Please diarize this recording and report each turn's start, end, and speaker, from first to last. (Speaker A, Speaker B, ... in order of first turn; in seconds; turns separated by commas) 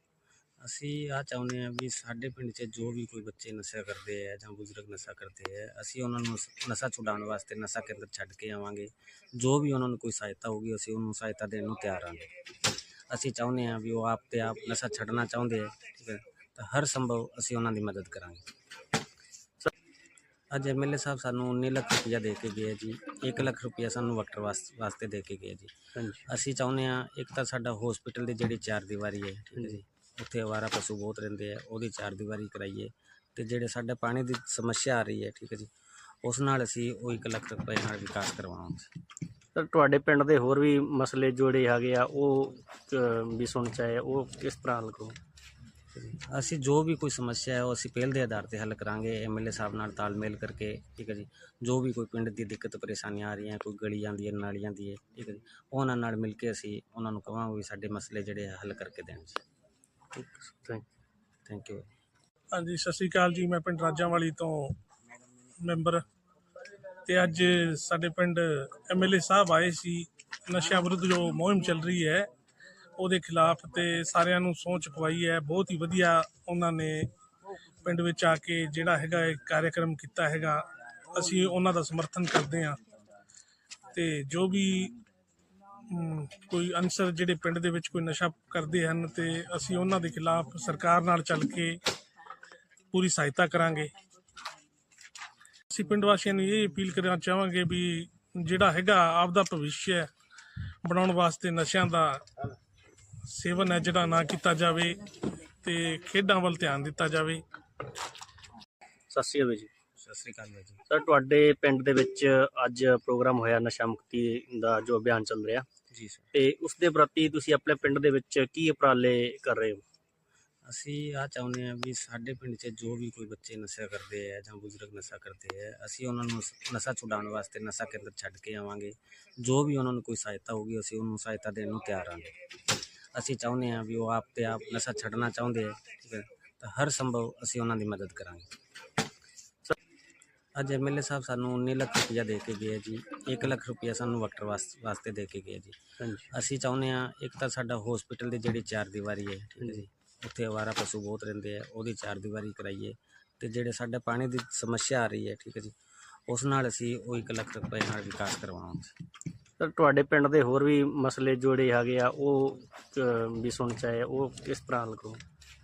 Speaker A: 0.6-12.4, Speaker A: 13.1-18.5, Speaker A: 20.5-25.7, Speaker B: 25.9-26.3, Speaker A: 26.2-35.7, Speaker A: 36.2-38.9, Speaker B: 39.5-45.2, Speaker A: 46.0-59.4, Speaker B: 60.1-60.9, Speaker A: 61.5-61.9, Speaker C: 62.5-64.8, Speaker C: 65.6-66.0, Speaker C: 67.0-72.3, Speaker C: 73.0-77.1, Speaker C: 77.8-82.8, Speaker C: 83.9-85.0, Speaker C: 85.9-91.8, Speaker C: 92.9-93.9, Speaker C: 95.7-100.1, Speaker C: 100.8-102.2, Speaker C: 103.3-107.4, Speaker B: 109.1-109.7, Speaker A: 110.0-110.8, Speaker B: 110.9-115.7, Speaker A: 115.9-116.2, Speaker B: 116.3-119.8, Speaker A: 120.7-132.5, Speaker A: 133.1-138.5, Speaker A: 140.5-145.8, Speaker B: 146.0-146.3, Speaker A: 146.3-155.7, Speaker A: 156.3-158.9, Speaker B: 159.6-165.2